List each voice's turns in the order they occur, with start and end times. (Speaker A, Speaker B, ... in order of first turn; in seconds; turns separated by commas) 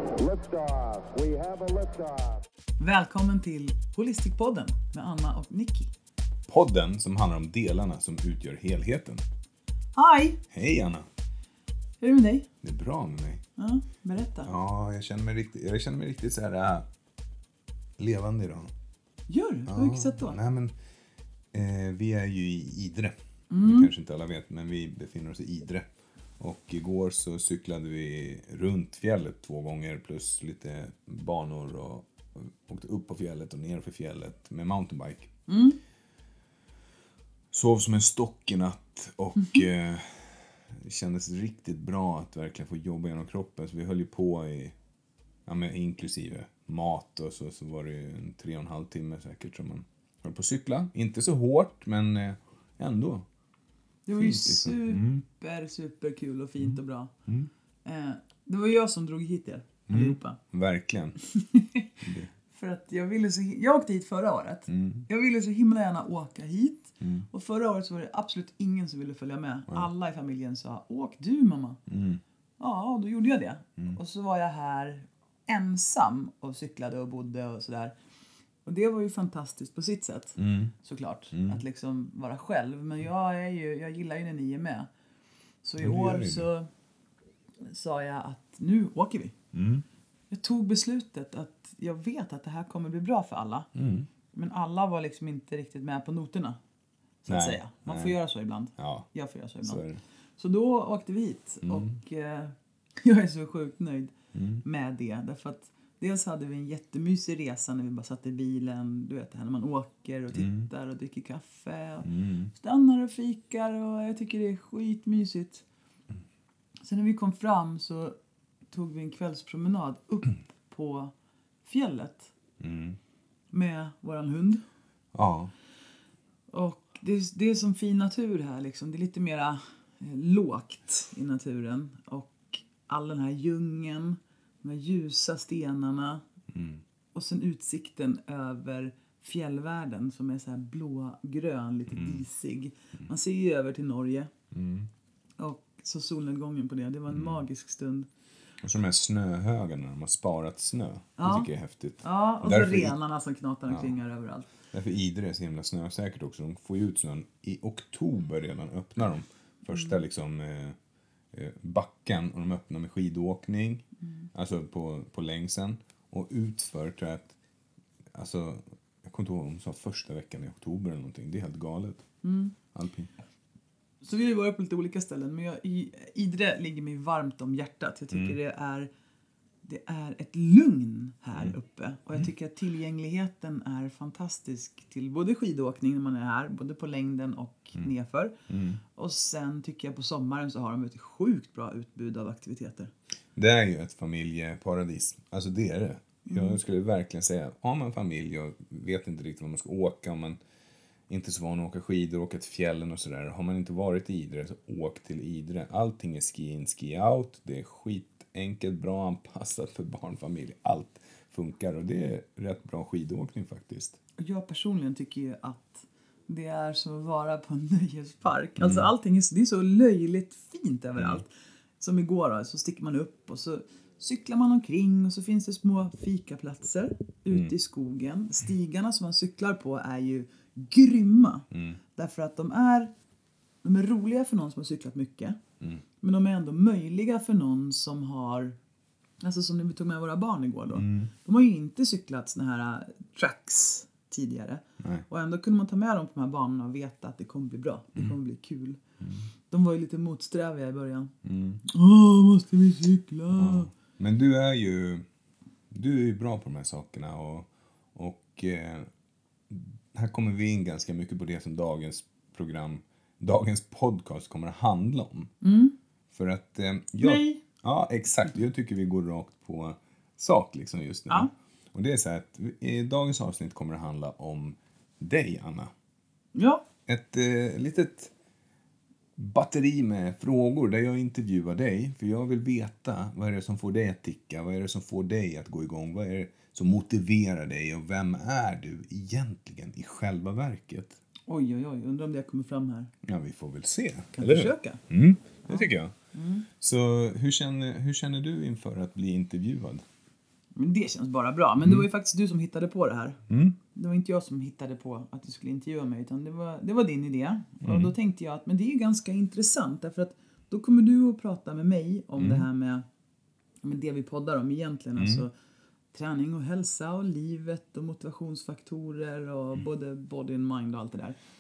Speaker A: 0.2-2.4, Speaker B: 2.8-5.9, Speaker C: 6.5-9.2, Speaker B: 9.9-10.4, Speaker C: 10.5-11.1, Speaker B: 12.0-12.5, Speaker C: 12.6-13.4, Speaker B: 13.6-14.5, Speaker C: 14.4-16.9, Speaker C: 18.0-18.7, Speaker B: 19.3-20.4, Speaker C: 19.7-20.8, Speaker C: 21.5-25.9, Speaker B: 23.5-23.9, Speaker C: 26.4-35.3, Speaker B: 35.5-35.8, Speaker C: 37.5-44.8, Speaker C: 45.5-53.3, Speaker B: 54.1-57.1, Speaker C: 54.2-55.2, Speaker B: 57.8-60.4, Speaker C: 59.9-61.2, Speaker B: 61.2-62.0, Speaker C: 62.0-62.3, Speaker B: 62.5-71.8, Speaker C: 64.7-65.1, Speaker C: 71.9-72.2, Speaker B: 72.6-77.9, Speaker B: 78.7-84.9, Speaker C: 80.4-80.7, Speaker C: 81.3-81.6, Speaker B: 85.6-86.7, Speaker C: 85.8-86.5, Speaker B: 87.7-89.3, Speaker C: 89.5-89.8, Speaker B: 90.3-93.7, Speaker C: 93.8-94.1, Speaker B: 94.3-96.6, Speaker B: 97.2-99.8, Speaker C: 97.3-98.2, Speaker C: 98.8-99.1, Speaker C: 99.6-100.0, Speaker B: 100.4-115.7, Speaker C: 101.6-101.9, Speaker C: 104.3-104.6, Speaker C: 110.3-110.7, Speaker C: 112.0-112.5, Speaker B: 116.8-118.2, Speaker B: 118.7-121.1, Speaker B: 121.7-122.3, Speaker C: 122.6-123.0, Speaker B: 123.5-124.6, Speaker C: 125.1-125.5, Speaker B: 126.5-136.2, Speaker C: 136.5-136.8, Speaker B: 137.1-144.3, Speaker C: 141.9-142.2, Speaker C: 144.5-144.9, Speaker B: 145.4-148.1, Speaker C: 147.1-147.4, Speaker C: 148.6-152.9, Speaker B: 151.2-151.5, Speaker B: 152.0-154.5, Speaker C: 154.7-160.8, Speaker C: 161.3-167.3, Speaker C: 168.1-172.1, Speaker B: 172.2-172.6, Speaker C: 172.7-173.1, Speaker B: 174.0-178.9, Speaker B: 179.6-188.3, Speaker C: 188.5-188.8, Speaker B: 188.9-192.9, Speaker C: 193.4-200.4, Speaker B: 196.3-196.6, Speaker C: 201.1-214.0, Speaker B: 214.2-232.9, Speaker C: 218.6-218.9, Speaker C: 221.0-221.2, Speaker C: 231.5-231.8, Speaker B: 233.6-235.4, Speaker B: 236.0-238.6, Speaker B: 239.2-248.8, Speaker C: 240.7-241.1, Speaker C: 244.8-245.1, Speaker B: 249.5-251.1, Speaker C: 251.2-251.6, Speaker B: 251.7-253.7, Speaker C: 253.3-255.1, Speaker C: 255.7-258.9, Speaker C: 259.5-265.3, Speaker B: 265.4-265.7, Speaker C: 266.1-275.7, Speaker B: 267.0-267.4, Speaker B: 276.4-276.6, Speaker C: 276.9-278.1, Speaker C: 279.2-291.0, Speaker B: 291.3-292.9, Speaker C: 293.0-295.9, Speaker B: 294.1-294.8, Speaker B: 295.4-296.5, Speaker C: 296.6-299.8, Speaker B: 300.6-303.2, Speaker C: 301.6-301.9, Speaker C: 303.3-303.6, Speaker B: 303.7-312.9, Speaker C: 307.6-307.9, Speaker C: 312.2-312.5, Speaker B: 313.6-315.3, Speaker C: 315.0-315.2, Speaker B: 315.9-321.2